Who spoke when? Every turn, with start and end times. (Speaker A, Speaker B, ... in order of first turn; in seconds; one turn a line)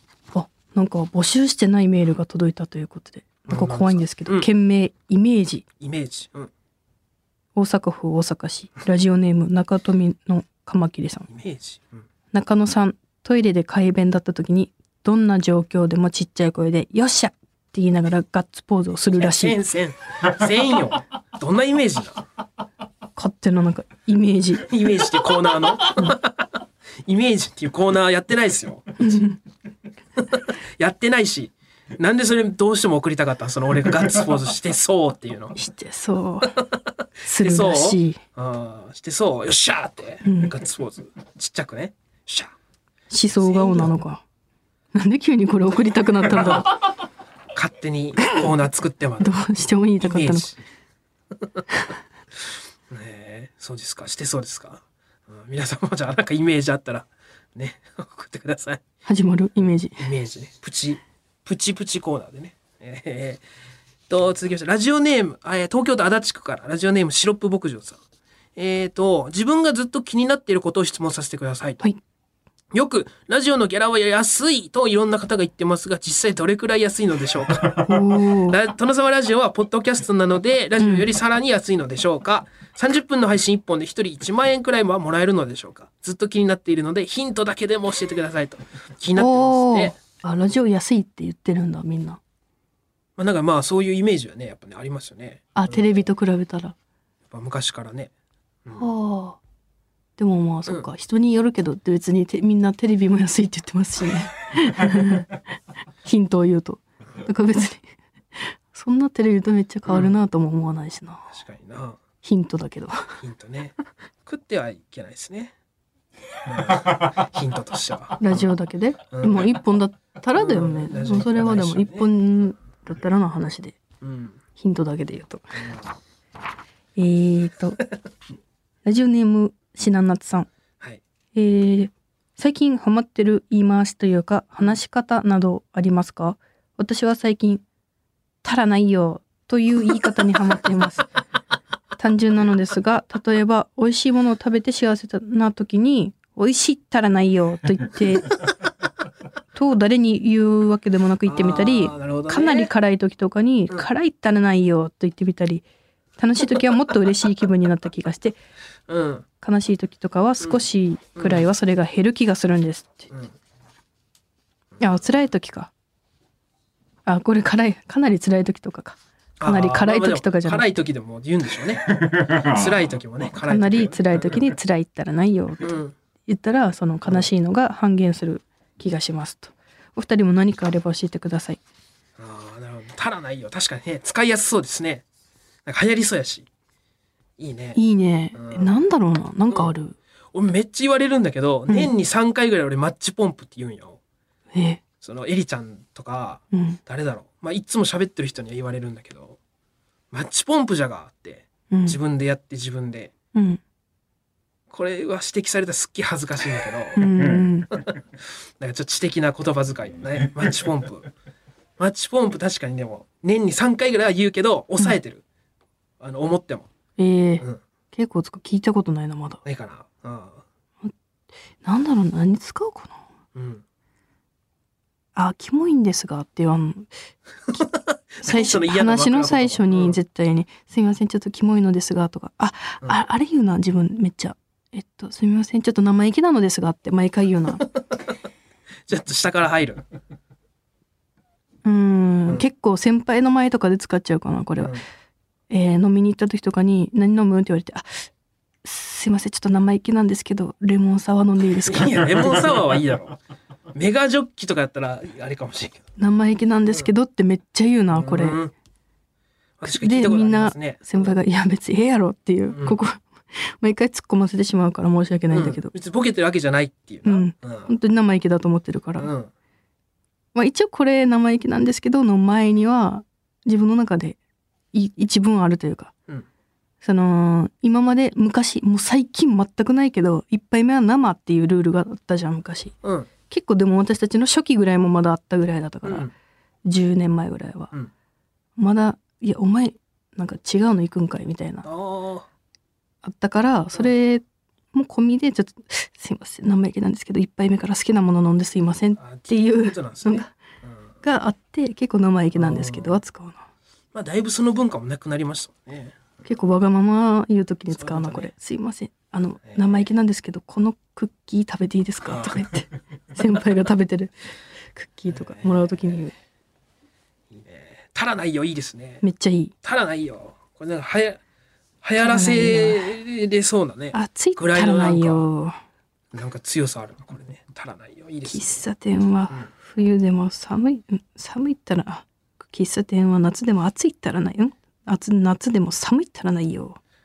Speaker A: 0.3-5.6
Speaker B: 3.5-4.5
Speaker B: 5.8-6.5
Speaker A: 7.5-11.3
Speaker B: 11.3-12.1
Speaker A: 12.3-19.6
Speaker B: 19.1-22.2
Speaker A: 23.1-24.7
Speaker B: 24.6-29.2
Speaker A: 29.0-29.4
Speaker B: 30.2-35.5
Speaker A: 35.5-36.6
Speaker B: 36.6-42.5
Speaker A: 37.2-38.2
Speaker A: 40.2-40.5
Speaker A: 43.1-44.2
Speaker B: 43.4-43.9
Speaker A: 44.9-46.8
Speaker B: 46.2-46.8
Speaker B: 47.5-49.3
Speaker A: 49.2-50.5
Speaker B: 50.0-50.6
Speaker B: 52.9-58.8
Speaker A: 59.0-60.0
Speaker B: 60.0-63.4
Speaker B: 64.1-68.0
Speaker B: 68.5-71.9
Speaker B: 72.7-89.9
Speaker A: 77.8-78.6
Speaker A: 80.8-81.1
Speaker A: 89.2-92.2
Speaker B: 93.2-95.9
Speaker A: 95.5-96.7
Speaker B: 97.3-98.1
Speaker A: 98.7-99.4
Speaker A: 100.2-105.3
Speaker A: 106.0-111.3
Speaker B: 109.8-110.1
Speaker B: 111.3-112.0
Speaker A: 112.2-113.1
Speaker B: 113.2-115.5
Speaker B: 116.4-118.4
Speaker A: 118.2-123.8
Speaker B: 119.1-119.6
Speaker B: 120.3-122.1
Speaker B: 124.0-124.4
Speaker A: 124.6-125.7
Speaker B: 125.6-125.8
Speaker A: 127.0-127.8
Speaker A: 128.8-130.5
Speaker A: 131.3-137.6
Speaker A: 138.4-141.1
Speaker A: 142.0-148.4
Speaker A: 149.5-155.6
Speaker B: 151.2-152.7
Speaker A: 156.2-158.3
Speaker B: 158.9-159.2
Speaker A: 159.4-163.1
Speaker B: 161.2-161.4
Speaker A: 164.8-165.7
Speaker A: 167.1-170.7
Speaker B: 169.4-174.4
Speaker A: 173.4-181.6
Speaker B: 175.6-175.9
Speaker B: 182.2-185.0
Speaker B: 185.7-186.5
Speaker B: 187.4-187.8
Speaker A: 187.7-189.9
Speaker B: 188.3-188.7
Speaker B: 190.3-194.0
Speaker A: 194.5-194.8
Speaker B: 195.0-199.4
Speaker A: 196.5-196.8
Speaker B: 200.1-203.1
Speaker A: 201.7-202.0
Speaker A: 203.3-203.6
Speaker B: 204.7-211.1
Speaker A: 206.9-207.7
Speaker B: 211.8-215.2
Speaker B: 216.0-216.7
Speaker A: 217.0-219.4
Speaker B: 219.4-220.4
Speaker A: 221.6-223.0
Speaker B: 223.3-223.6
Speaker A: 225.1-226.9
Speaker B: 227.5-230.0
Speaker A: 228.2-237.7
Speaker B: 238.9-239.8
Speaker A: 241.6-244.8
Speaker A: 245.5-248.1
Speaker A: 248.6-252.2
Speaker B: 251.7-253.2
Speaker B: 253.7-255.8
Speaker A: 256.0-258.4
Speaker B: 257.9-258.5
Speaker B: 259.6-261.1
Speaker A: 259.6-265.7
Speaker B: 262.5-262.8
Speaker B: 265.3-267.7
Speaker A: 267.0-269.1
Speaker B: 269.0-269.3
Speaker A: 270.3-274.2
Speaker A: 274.7-275.9
Speaker A: 276.8-282.8
Speaker B: 282.8-283.1
Speaker A: 283.3-286.1
Speaker B: 285.8-286.1
Speaker A: 286.6-287.7
Speaker A: 288.6-291.7
Speaker B: 291.6-292.3
Speaker A: 293.0-300.3
Speaker B: 299.0-300.8
Speaker A: 301.0-303.4
Speaker B: 302.4-303.0
Speaker B: 303.9-306.1
Speaker A: 306.2-314.1
Speaker B: 307.7-308.3
Speaker B: 309.4-309.8
Speaker B: 312.0-312.4
Speaker A: 314.7-316.1
Speaker B: 315.1-315.9
Speaker B: 317.3-319.0
Speaker A: 319.0-319.5
Speaker B: 319.6-321.2
Speaker B: 321.8-325.2
Speaker A: 322.0-322.9
Speaker A: 323.9-325.6
Speaker B: 326.1-328.5
Speaker A: 328.2-336.8